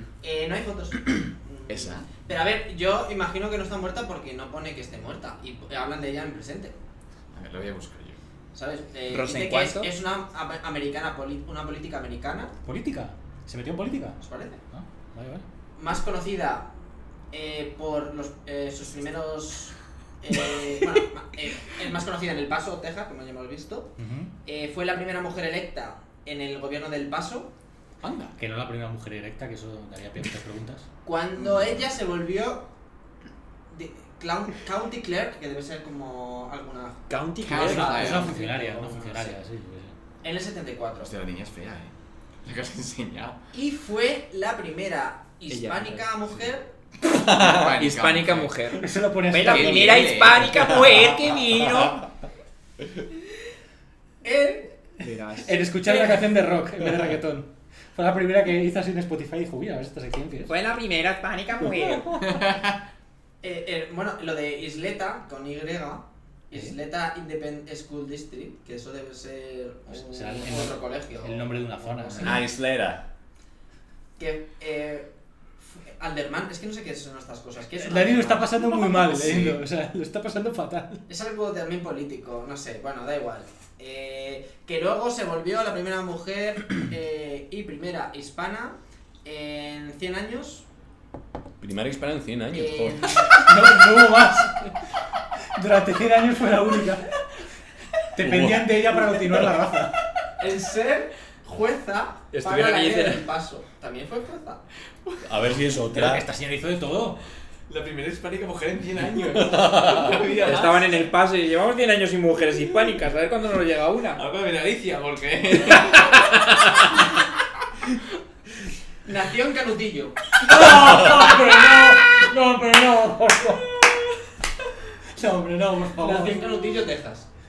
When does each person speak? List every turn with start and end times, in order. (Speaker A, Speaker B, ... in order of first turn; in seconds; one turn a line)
Speaker A: 0.2-6.8
Speaker B: 1.7-2.1
Speaker B: 7.3-8.2
Speaker A: 8.5-12.5
Speaker C: 9.1-9.9
Speaker D: 12.7-14.2
Speaker A: 14.2-14.6
Speaker D: 14.7-15.4
Speaker A: 15.8-16.7
Speaker A: 17.3-23.9
Speaker D: 24.0-24.3
Speaker A: 24.4-27.5
Speaker B: 28.0-28.3
Speaker D: 28.4-30.9
Speaker A: 31.1-32.7
Speaker B: 31.4-31.9
Speaker A: 33.7-39.4
Speaker C: 37.1-38.4
Speaker B: 37.4-38.3
Speaker D: 37.6-39.9
Speaker A: 40.2-41.1
Speaker B: 41.0-41.9
Speaker B: 42.4-43.4
Speaker A: 43.5-46.7
Speaker C: 45.5-46.1
Speaker B: 47.1-48.6
Speaker C: 47.4-52.0
Speaker D: 48.8-50.3
Speaker B: 49.4-50.9
Speaker A: 54.2-54.8
Speaker C: 55.0-56.2
Speaker D: 55.4-60.5
Speaker C: 60.5-62.3
Speaker B: 62.2-62.8
Speaker A: 63.4-72.4
Speaker D: 69.9-72.4
Speaker E: 72.2-73.0
Speaker A: 74.2-75.1
Speaker A: 75.6-78.5
Speaker D: 77.8-81.0
Speaker B: 79.1-79.6
Speaker A: 81.1-90.7
Speaker E: 91.6-93.3
Speaker A: 92.5-93.5
Speaker D: 93.3-94.8
Speaker D: 95.5-97.1
Speaker D: 98.1-100.0
Speaker E: 98.2-98.9
Speaker A: 100.4-104.6
Speaker C: 102.3-103.3
Speaker E: 105.2-106.2
Speaker D: 105.9-107.2
Speaker B: 107.7-111.1
Speaker E: 109.3-110.2
Speaker C: 110.4-114.2
Speaker B: 114.2-116.8
Speaker A: 119.0-120.2
Speaker D: 120.4-123.8
Speaker D: 125.2-126.5
Speaker A: 126.0-127.3